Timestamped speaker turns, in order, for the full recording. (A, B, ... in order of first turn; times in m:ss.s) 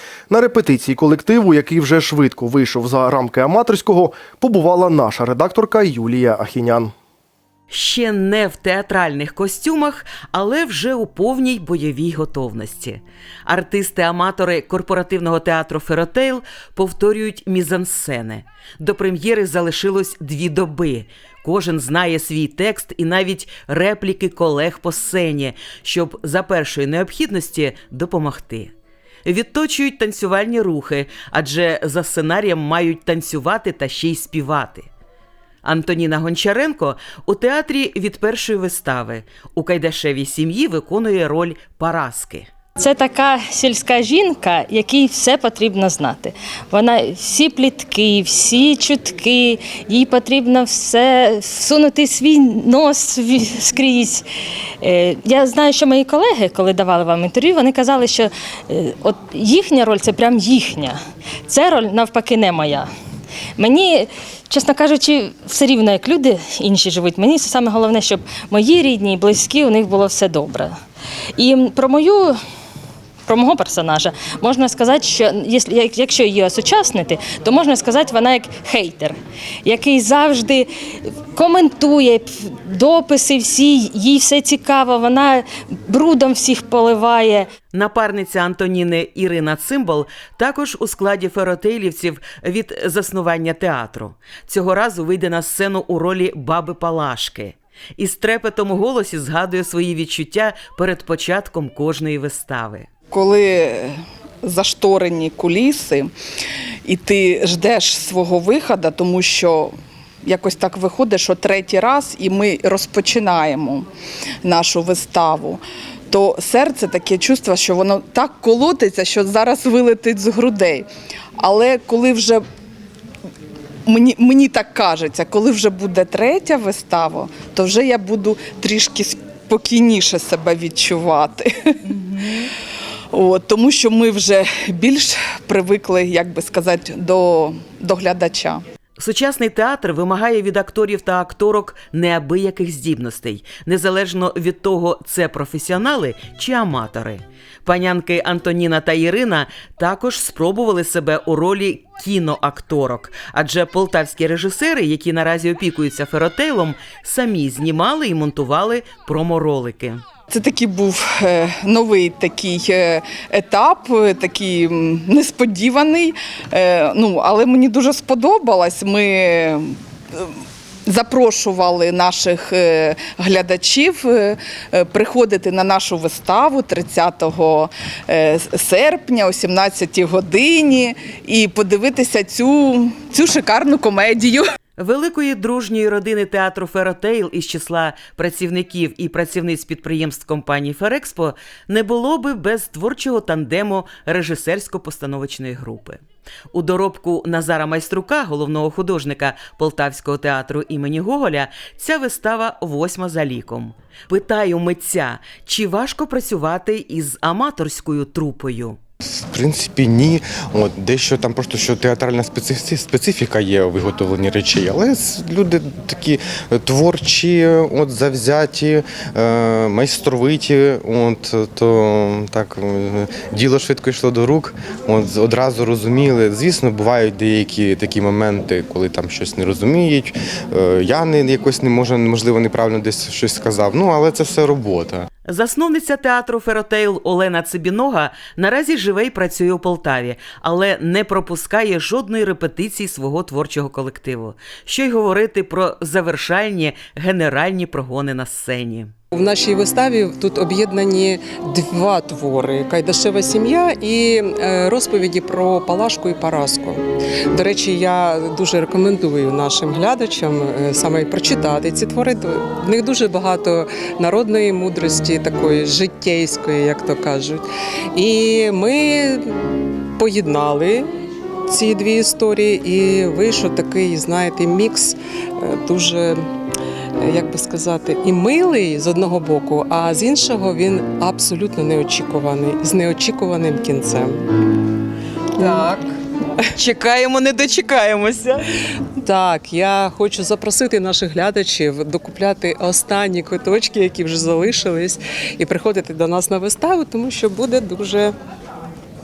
0:00.3-0:06.9 A
0:07.7-0:28.7 B
0:29.2-0:34.9 B
0:35.6-0:42.5 B
0:42.8-0:54.3 C
0:54.8-1:02.9 C
1:03.6-1:10.8 C
1:11.4-1:12.4 C
1:13.3-1:27.5 C
1:27.7-1:42.9 B
1:43.1-1:43.9 D
1:44.4-1:46.1 D
1:46.9-1:49.7 D
1:50.2-1:53.9 D
1:54.4-2:00.9 D
2:01.4-2:02.4 D
2:03.9-2:12.5 D
2:13.1-2:18.6 D
2:19.0-2:40.0 B
2:40.3-3:04.4 D
3:04.8-3:16.0 B
3:16.5-3:28.8 B
3:29.0-3:55.1 E
3:55.2-4:08.9 B
4:09.1-4:29.4 F
4:30.0-4:30.9 F
4:31.5-4:36.2 F
4:37.0-4:44.2 F
4:45.4-4:45.8 F
4:46.5-4:48.4 B
4:49.0-4:58.2 F